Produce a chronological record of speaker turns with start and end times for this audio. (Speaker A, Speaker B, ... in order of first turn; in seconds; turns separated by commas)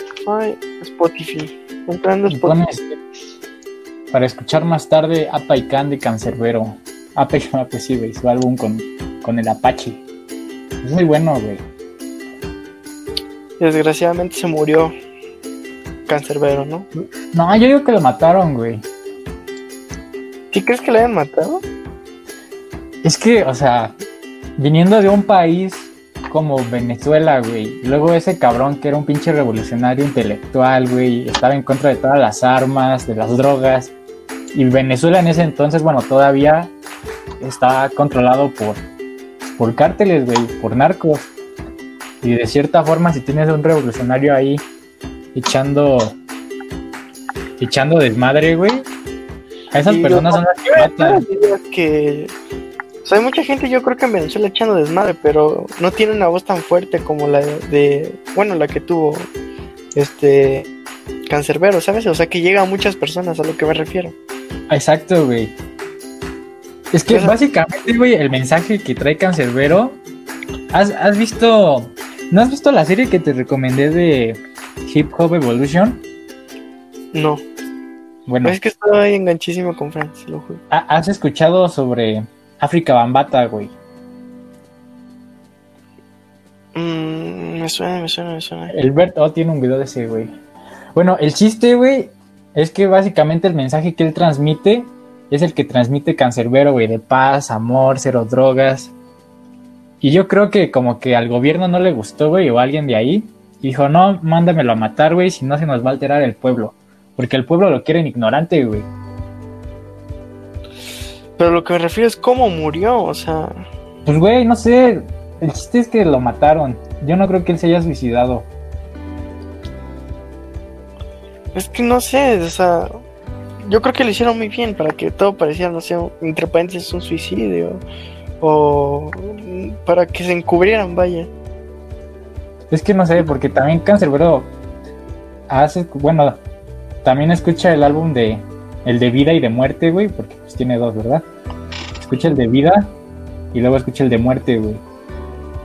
Speaker A: 0.2-2.6, Speaker B: 2.3-3.0, Speaker B: 4.1-10.0, Speaker B: 10.8-11.6, Speaker A: 13.6-14.9, Speaker A: 16.1-16.9, Speaker B: 17.0-18.9, Speaker A: 20.5-21.6, Speaker B: 23.0-23.9, Speaker B: 24.6-33.9, Speaker B: 34.5-36.7, Speaker B: 37.4-38.8, Speaker B: 39.4-41.3, Speaker B: 42.2-44.6, Speaker B: 45.4-46.2, Speaker B: 47.6-48.9, Speaker B: 49.7-51.2, Speaker A: 49.9-52.3, Speaker A: 53.0-59.3, Speaker A: 60.0-60.7, Speaker A: 61.3-64.2, Speaker B: 64.7-65.5, Speaker B: 66.9-70.0, Speaker A: 67.1-67.4, Speaker B: 70.7-76.0, Speaker A: 77.1-77.4, Speaker B: 78.3-78.6, Speaker A: 78.4-80.6, Speaker B: 80.7-83.7, Speaker A: 86.8-88.7, Speaker B: 88.7-90.3, Speaker B: 91.0-98.9, Speaker B: 100.0-108.9, Speaker A: 111.4-113.6, Speaker B: 114.1-118.5, Speaker A: 121.5-123.0, Speaker A: 123.6-127.8, Speaker A: 128.4-131.3, Speaker B: 132.7-134.5, Speaker B: 135.5-136.4, Speaker B: 137.0-141.3, Speaker B: 142.0-142.9, Speaker B: 143.5-144.8